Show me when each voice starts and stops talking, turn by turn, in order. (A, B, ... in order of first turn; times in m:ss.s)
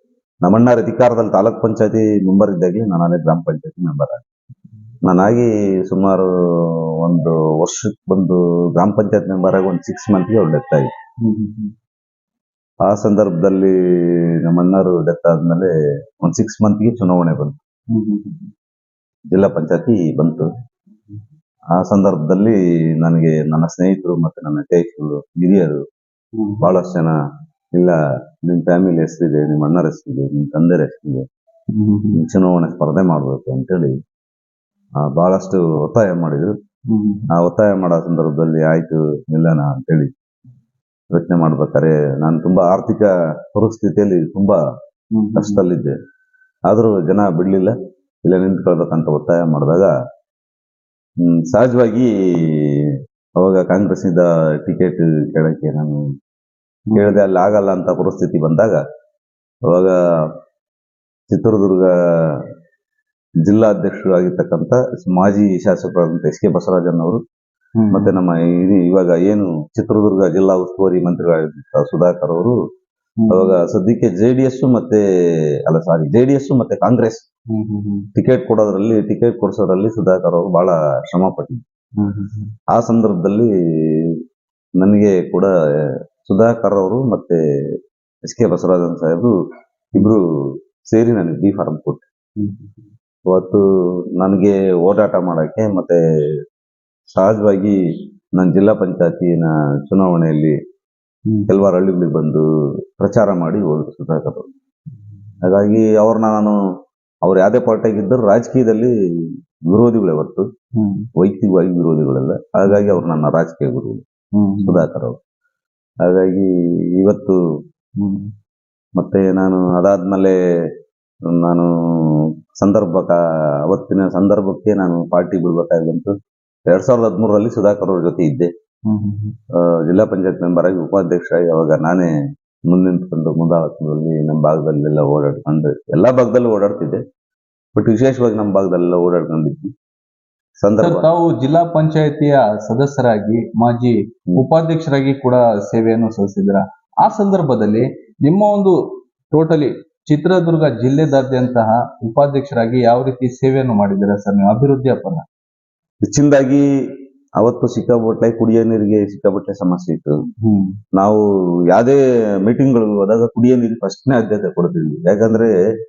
0:00.4-0:04.2 A
0:05.0-0:10.9 A
0:11.2-0:11.7 B
0:12.8-0:17.6 A
0:17.9-0:18.5 B
0:19.3-0:20.5 A
0:21.7-0:25.8 A
0:26.4-0:26.6 B
0:26.6-0:27.1 A
0:27.7-0:31.2 A
0:31.7-0:32.2 B
0:32.1-0:34.0 A
0:35.0-0:36.5 A
0:36.9-0:37.3 B
0:37.3-0:40.1 A
0:41.1-0:44.6 A
0:45.1-0:45.6 B
0:45.3-0:45.9 A
0:46.7-0:49.9 A
0:51.2-0:56.0 A
0:56.9-0:57.2 B
0:56.9-0:58.8 A
0:59.7-1:00.3 A
1:01.3-1:02.4 A
1:03.4-1:07.2 A
1:07.8-1:08.1 B
1:07.9-1:12.6 A
1:13.2-1:13.5 B
1:13.3-1:15.0 A
1:15.6-1:17.2 A
1:17.5-1:18.1 B
1:18.2-1:21.6 A
1:22.0-1:22.5 B
1:22.7-1:24.2 A
1:24.8-1:27.4 A
1:28.2-1:29.3 A
1:29.9-1:30.2 A
1:30.8-1:32.1 A
1:32.4-1:32.7 B
1:33.3-1:36.0 A
1:37.1-1:37.8 A
1:38.3-1:40.6 A
1:41.5-1:42.4 A
1:43.0-1:44.5 A
1:45.4-1:46.6 A
1:47.2-1:50.4 A
1:50.8-1:51.1 B
1:51.2-1:54.0 A
1:52.7-1:53.0 B
1:54.3-1:54.8 B
1:54.6-1:55.2 A
1:56.0-1:57.4 A
1:58.0-1:58.3 B
1:59.0-2:00.4 A
2:01.3-2:06.1 A
2:06.7-2:08.5 A
2:08.9-2:09.4 B
2:09.5-2:12.1 A
2:12.7-2:17.0 A
2:17.8-2:19.7 A
2:20.6-2:21.1 A
2:20.8-2:28.8 B
2:29.3-2:35.2 B
2:36.0-2:36.6 A
2:37.4-2:40.2 A
2:40.4-2:40.8 B
2:40.9-2:45.6 A